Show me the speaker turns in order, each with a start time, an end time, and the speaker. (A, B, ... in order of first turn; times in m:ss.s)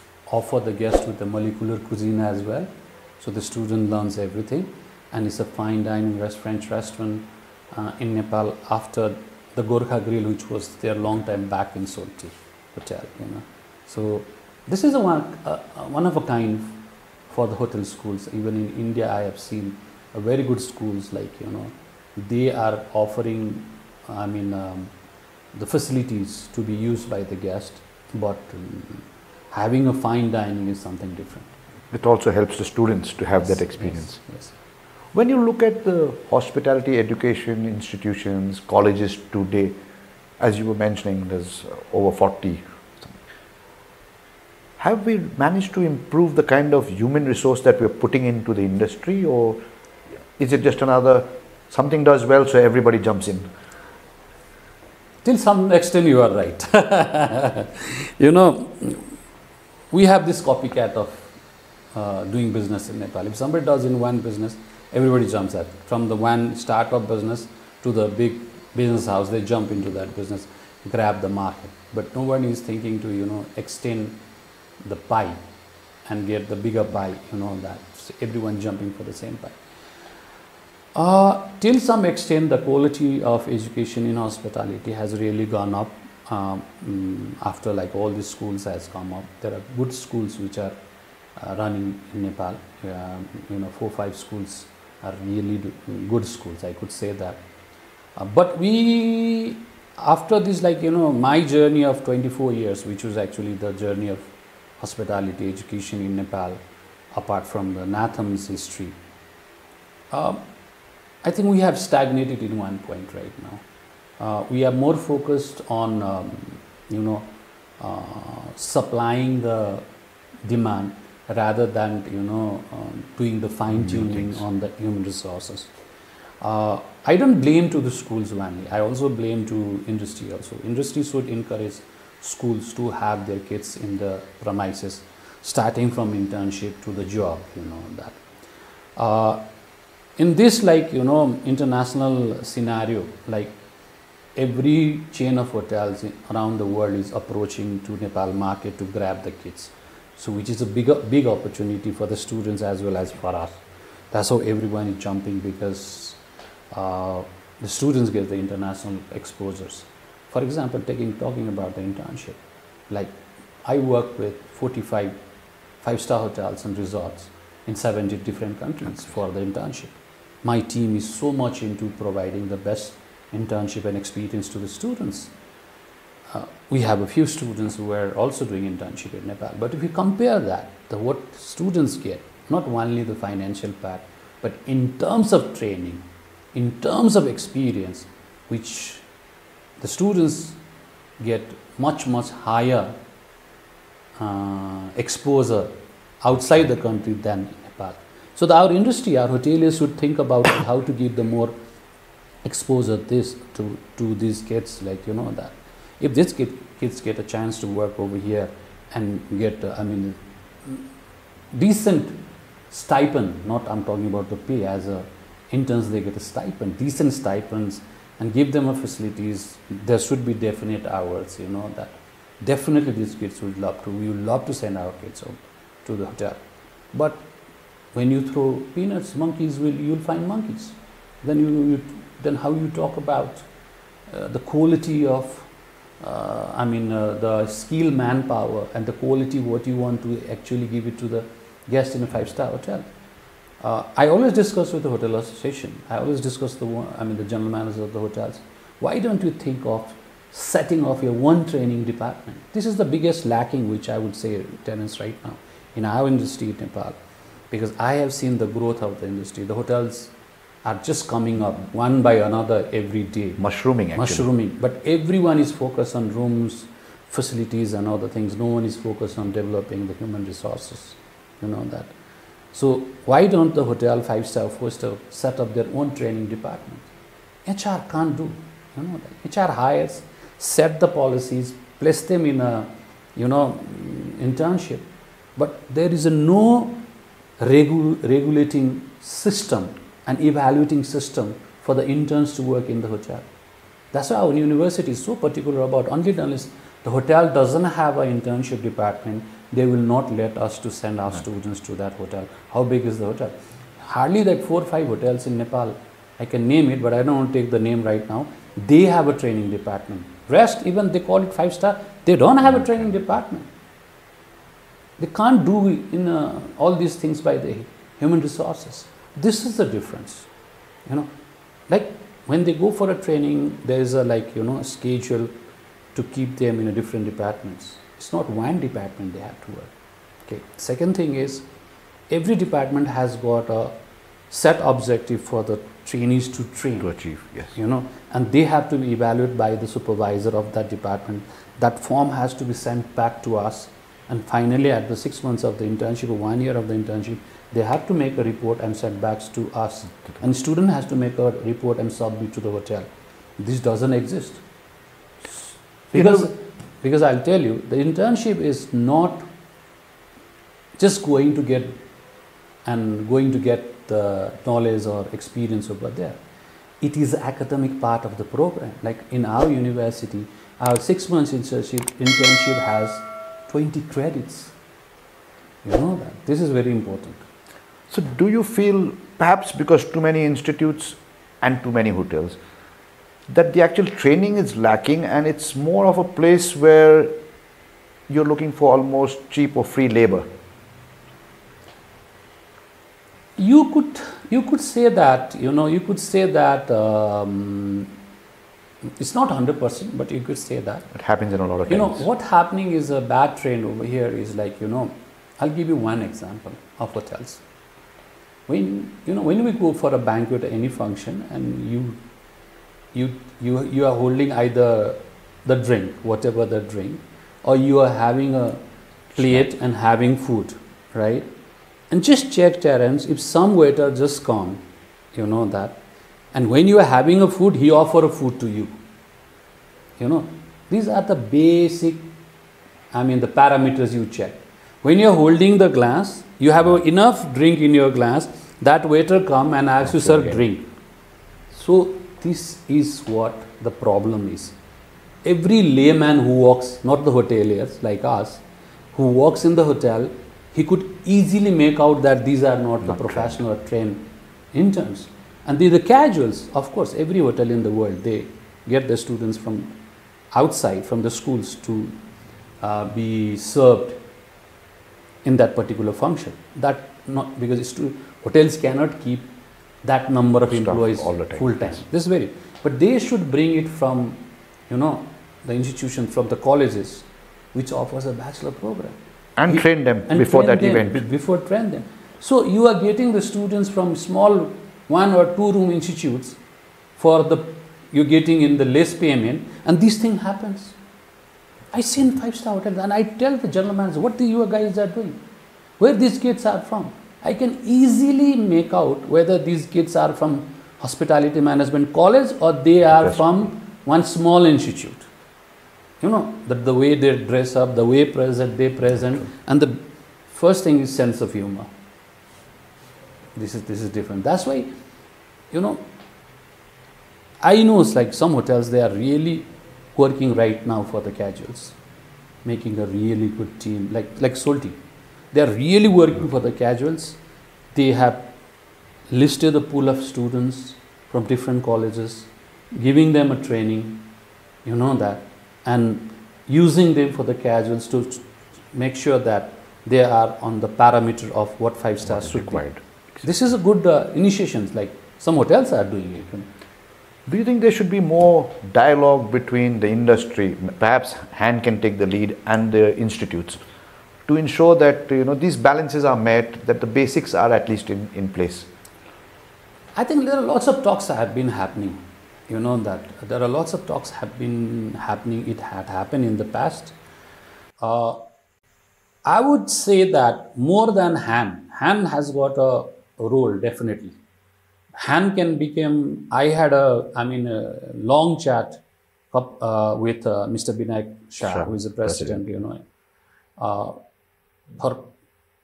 0:00.3-0:24.9 A
0:25.5-0:31.5 A
0:31.9-0:34.2 B
0:33.4-0:34.6 A
0:35.1-0:39.8 B
0:40.4-0:43.2 B
0:44.8-0:49.6 B
0:50.4-0:53.5 B
0:55.2-0:59.1 A
0:59.9-1:01.4 A
1:01.9-1:14.2 A
1:14.8-1:15.4 A
1:16.0-1:19.6 A
1:20.9-1:30.8 A
1:31.4-1:37.4 A
1:38.2-1:49.0 A
1:50.1-1:50.5 A
1:51.2-1:53.6 A
1:54.2-1:59.9 A
2:00.4-2:05.7 A
2:06.4-2:18.2 A
2:19.0-2:19.5 A
2:20.2-2:23.6 A
2:24.4-2:45.2 A
2:45.8-2:55.3 A
2:56.3-3:09.0 A
3:09.8-3:10.6 A
3:11.2-3:13.0 A
3:14.2-3:21.5 A
3:22.4-3:30.9 A
3:31.5-3:46.4 A
3:46.9-3:47.3 A
3:47.9-3:53.5 A
3:54.1-4:02.9 A
4:03.6-4:17.0 A
4:17.5-4:23.4 A
4:23.4-4:24.3 B
4:23.9-4:32.0 A
4:32.5-4:36.9 A
4:37.4-4:46.8 A
4:47.4-4:53.3 A
4:53.9-5:13.5 A
5:15.0-5:20.3 A
5:20.9-5:21.1 A
5:21.7-5:25.3 A
5:25.9-5:29.7 A
5:30.2-5:31.5 A
5:32.1-5:33.8 A
5:34.3-5:37.0 A
5:36.8-5:37.5 B
5:37.5-5:54.4 A
5:55.9-5:59.3 A
5:55.9-5:56.3 B
6:00.8-6:01.8 A
6:02.6-6:06.2 A
6:06.8-6:14.5 A
6:15.6-6:17.2 A
6:17.9-6:22.4 B
6:23.3-6:27.2 B
6:28.1-6:30.3 B
6:33.4-6:37.9 A
6:39.0-6:40.9 A
6:40.9-6:42.1 B
6:41.7-6:47.4 A
6:48.5-6:52.0 A
6:52.9-6:58.6 A
6:59.1-7:01.3 A
7:01.9-7:08.8 A
7:10.0-7:12.1 A
7:12.9-7:20.7 A
7:20.0-7:20.4 B
7:21.5-7:24.6 A
7:25.2-7:39.8 A
7:32.8-7:33.4 B
7:40.3-7:42.0 A
7:42.6-7:44.0 A
7:45.2-8:06.4 A
7:50.5-7:51.8 B
7:59.4-8:01.0 B
8:07.0-8:10.8 A
8:11.7-8:15.2 A
8:15.8-8:25.1 A
8:26.0-8:31.7 A
8:33.4-8:34.7 A
8:35.5-8:35.8 A
8:37.4-8:41.8 A
8:42.4-8:44.8 A
8:45.3-8:47.2 A
8:47.7-8:48.3 A
8:49.1-8:54.1 A
8:54.6-9:06.5 A
9:02.0-9:03.2 B
9:07.3-9:13.6 B
9:14.2-9:18.7 B
9:20.0-9:27.0 A
9:27.8-9:28.2 A
9:29.2-9:34.2 A
9:35.0-9:42.8 A
9:41.4-9:42.3 B
9:43.6-9:44.0 A
9:44.8-9:45.1 A